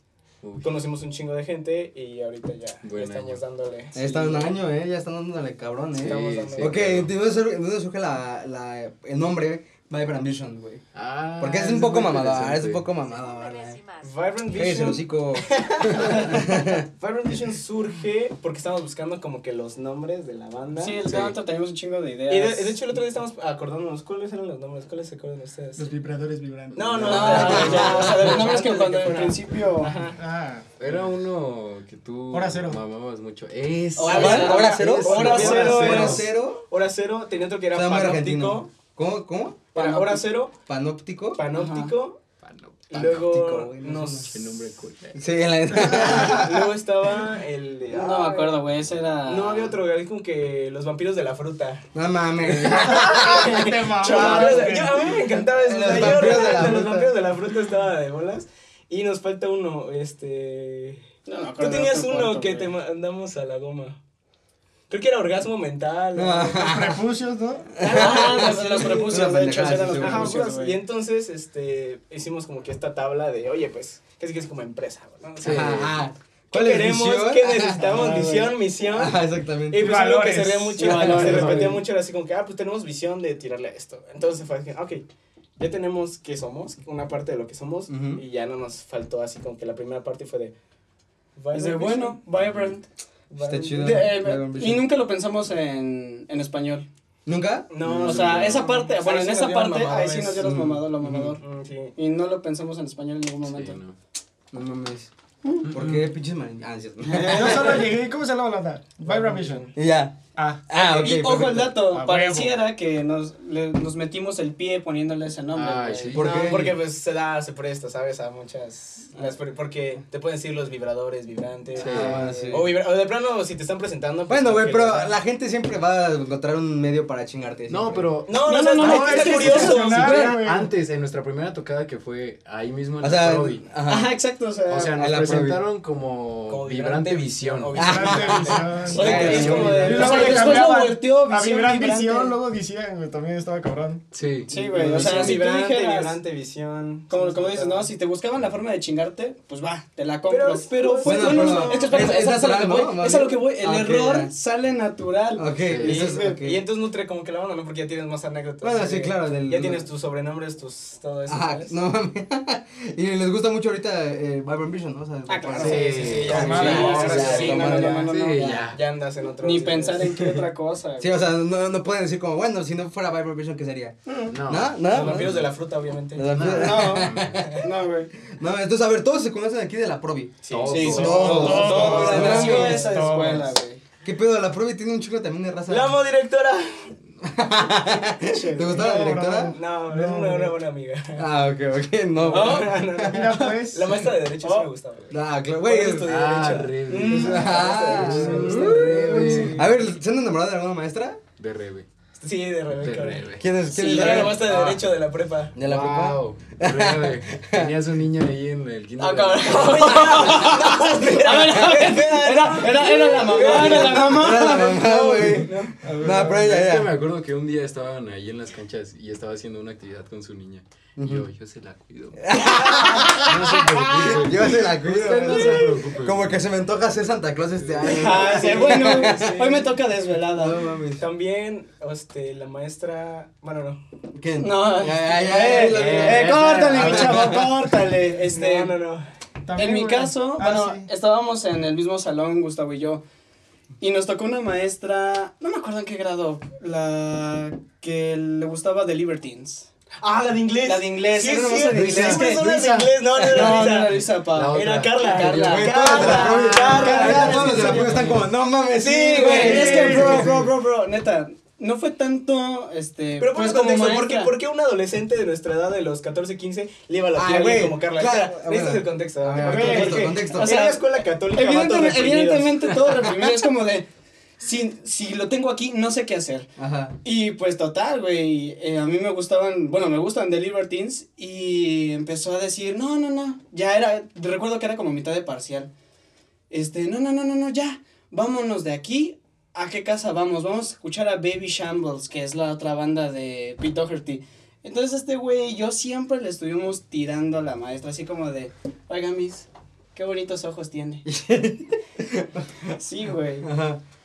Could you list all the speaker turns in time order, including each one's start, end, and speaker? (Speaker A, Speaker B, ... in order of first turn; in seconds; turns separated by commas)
Speaker A: 0.4-0.8, Speaker B: 0.6-4.5, Speaker A: 2.8-3.4, Speaker C: 3.9-10.8, Speaker A: 5.9-7.1, Speaker B: 6.0-6.8, Speaker A: 10.9-12.8, Speaker C: 11.4-13.8, Speaker B: 14.0-21.2, Speaker C: 14.5-16.8, Speaker D: 20.8-22.8, Speaker B: 22.3-25.9, Speaker E: 25.8-27.8, Speaker B: 26.7-30.2, Speaker D: 27.0-29.9, Speaker C: 27.3-28.3, Speaker E: 30.1-30.6, Speaker A: 30.8-34.5, Speaker E: 32.3-32.8, Speaker D: 34.0-36.2, Speaker B: 34.0-38.7, Speaker C: 34.1-36.6, Speaker A: 35.4-36.2, Speaker C: 37.7-39.7, Speaker B: 39.7-40.5, Speaker D: 39.7-40.2, Speaker C: 40.6-41.4, Speaker B: 41.3-42.2, Speaker D: 41.5-41.9, Speaker A: 42.4-43.1, Speaker B: 42.9-44.5, Speaker C: 42.9-44.3, Speaker A: 44.3-45.2, Speaker C: 45.1-46.5, Speaker E: 45.7-46.6, Speaker B: 45.9-48.6, Speaker D: 47.9-49.7, Speaker B: 49.2-51.8, Speaker C: 51.9-53.4, Speaker B: 52.5-61.0, Speaker E: 52.7-55.2, Speaker D: 54.0-54.8, Speaker C: 54.1-54.5, Speaker C: 55.4-57.1, Speaker D: 61.2-62.7, Speaker B: 61.6-64.0, Speaker B: 64.9-66.8, Speaker C: 66.1-67.0, Speaker E: 66.6-67.7, Speaker C: 67.8-70.4, Speaker B: 67.8-69.3, Speaker D: 67.8-70.8, Speaker B: 69.9-75.6, Speaker A: 75.4-76.0, Speaker C: 75.4-77.9, Speaker B: 76.5-79.2, Speaker E: 77.8-78.5, Speaker C: 78.9-79.9, Speaker B: 79.7-85.0, Speaker E: 79.8-81.0, Speaker A: 80.8-81.8, Speaker D: 81.0-81.8, Speaker B: 85.6-90.5, Speaker C: 87.9-88.2, Speaker B: 91.3-94.1, Speaker D: 91.5-92.8, Speaker A: 92.3-92.7, Speaker C: 93.4-94.9, Speaker D: 93.7-96.8, Speaker C: 97.2-97.7, Speaker B: 97.7-100.5, Speaker A: 97.8-98.7, Speaker D: 97.9-101.4, Speaker C: 100.4-101.3, Speaker B: 101.4-101.9, Speaker D: 102.0-103.8, Speaker A: 103.5-103.9, Speaker C: 104.5-107.8, Speaker A: 105.7-106.1, Speaker E: 107.1-109.7, Speaker B: 109.0-109.7, Speaker C: 109.7-111.7, Speaker E: 110.3-111.2, Speaker D: 110.7-116.2, Speaker E: 111.7-112.5, Speaker A: 115.5-116.7, Speaker C: 116.1-116.8, Speaker B: 116.2-125.1, Speaker A: 121.7-122.6, Speaker C: 121.8-122.7, Speaker C: 124.3-128.1, Speaker A: 127.7-128.3, Speaker B: 128.3-130.3, Speaker D: 128.4-130.4, Speaker E: 128.7-130.7, Speaker A: 129.4-133.6, Speaker C: 133.0-134.1, Speaker D: 133.9-135.1, Speaker A: 134.7-137.8, Speaker C: 134.9-135.6, Speaker B: 136.5-140.7, Speaker E: 137.7-144.0, Speaker C: 137.8-140.6, Speaker D: 138.8-142.3, Speaker A: 139.1-140.1, Speaker A: 144.1-145.4, Speaker D: 144.5-146.2, Speaker B: 144.9-147.9, Speaker D: 147.1-156.4, Speaker B: 150.3-152.2, Speaker C: 151.0-154.3, Speaker C: 155.3-156.6, Speaker A: 155.6-156.1, Speaker B: 155.8-161.7, Speaker C: 158.6-159.8, Speaker C: 161.3-168.1, Speaker D: 165.3-168.7, Speaker B: 165.6-168.2, Speaker A: 165.6-167.5, Speaker E: 166.3-167.5, Speaker A: 168.1-168.8, Speaker B: 168.7-170.1, Speaker D: 169.4-171.2, Speaker C: 171.0-175.5, Speaker D: 174.1-174.3, Speaker A: 174.3-175.5, Speaker B: 174.9-176.3, Speaker C: 176.1-177.6, Speaker A: 176.3-177.4, Speaker D: 176.5-178.1, Speaker C: 178.2-183.0, Speaker B: 180.4-182.9, Speaker A: 180.5-182.4, Speaker D: 180.7-183.8, Speaker E: 181.0-183.5, Speaker C: 184.0-186.0, Speaker B: 185.7-186.9, Speaker C: 187.2-189.6, Speaker D: 188.3-188.7, Speaker E: 188.5-190.5, Speaker B: 189.4-191.2, Speaker C: 191.2-193.5, Speaker B: 192.3-199.7, Speaker D: 192.3-192.6, Speaker E: 193.0-193.9, Speaker D: 194.4-194.7, Speaker C: 195.1-196.1, Speaker A: 196.1-199.6, Speaker D: 196.9-199.5, Speaker C: 197.1-201.2, Speaker A: 201.4-201.8, Speaker B: 202.2-205.5, Speaker A: 202.8-203.4, Speaker C: 203.4-204.5, Speaker D: 203.7-204.4, Speaker A: 204.1-204.8, Speaker C: 205.5-207.7, Speaker A: 205.6-210.2, Speaker D: 209.0-214.8, Speaker B: 209.3-215.9, Speaker C: 213.4-216.9, Speaker E: 215.8-216.4, Speaker A: 216.0-222.3, Speaker C: 221.0-221.2, Speaker C: 222.2-229.6, Speaker D: 222.5-223.1, Speaker A: 223.2-226.4, Speaker B: 225.3-225.6, Speaker D: 227.8-230.6, Speaker B: 228.1-229.6, Speaker C: 230.3-231.1, Speaker B: 231.0-233.8, Speaker C: 234.1-237.5, Speaker D: 234.4-238.7, Speaker A: 235.7-237.1, Speaker B: 238.3-239.0, Speaker E: 239.4-240.9, Speaker D: 239.5-243.0, Speaker D: 243.8-249.7, Speaker B: 250.0-253.9, Speaker D: 250.6-258.0, Speaker C: 251.7-252.3, Speaker C: 253.1-253.6, Speaker A: 254.3-256.9, Speaker B: 254.5-258.0, Speaker C: 255.4-260.5, Speaker A: 257.6-258.2, Speaker B: 258.8-260.2, Speaker D: 258.8-264.3, Speaker E: 259.3-260.2, Speaker B: 263.2-272.8, Speaker C: 267.1-270.6, Speaker D: 269.4-273.9, Speaker C: 272.9-273.3, Speaker D: 274.4-276.5, Speaker C: 276.6-277.0, Speaker D: 277.0-285.7, Speaker D: 286.5-301.0, Speaker C: 301.0-302.8, Speaker D: 302.8-303.5, Speaker C: 303.4-303.8